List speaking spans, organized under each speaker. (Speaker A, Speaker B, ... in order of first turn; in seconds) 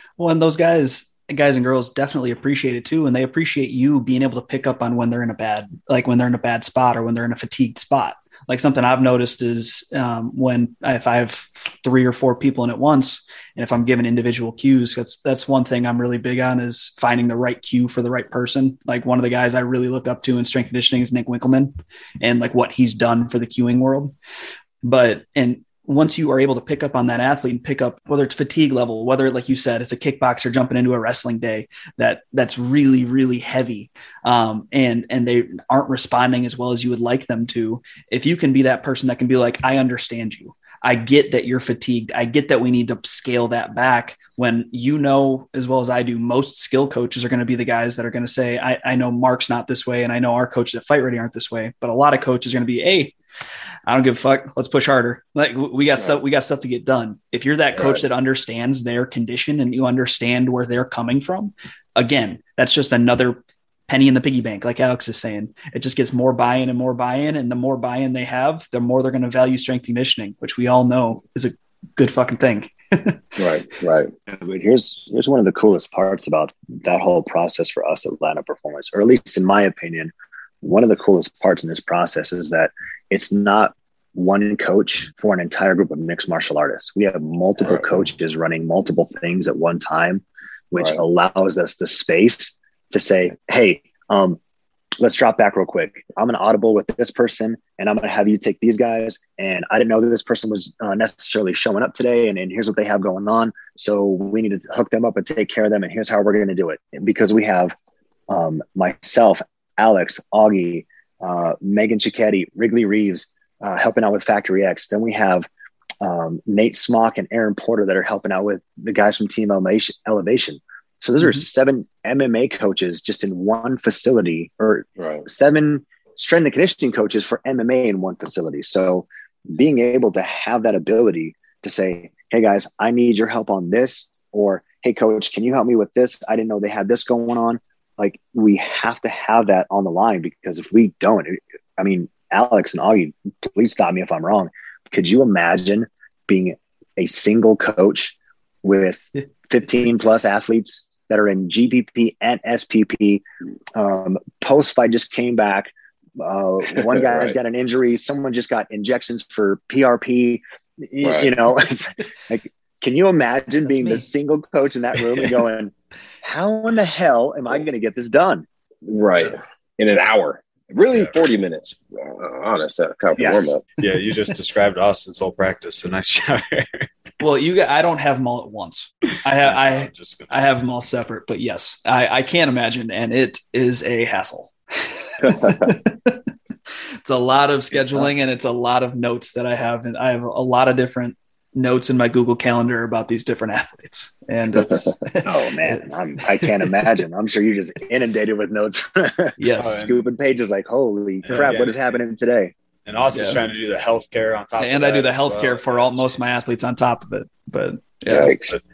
Speaker A: 0.2-24.1, 24.8-53.1, 53.9-73.4, 121.2-121.5, 163.7-164.1, 177.2-186.2, 187.0-196.9, 199.4-199.9, 203.1-203.4, 204.6-208.3
Speaker B: 57.8-58.0, 73.4-74.1, 87.7-88.0, 125.0-125.2, 156.9-157.3, 161.0-161.3, 168.9-173.7, 208.1-208.6
Speaker C: 74.3-94.4, 95.0-107.8, 108.3-115.5, 116.0-153.2, 153.8-168.5, 173.2-173.6, 195.2-202.5
Speaker D: 173.8-176.9, 179.4-180.3, 199.6-200.0, 201.3-201.9, 202.9-206.4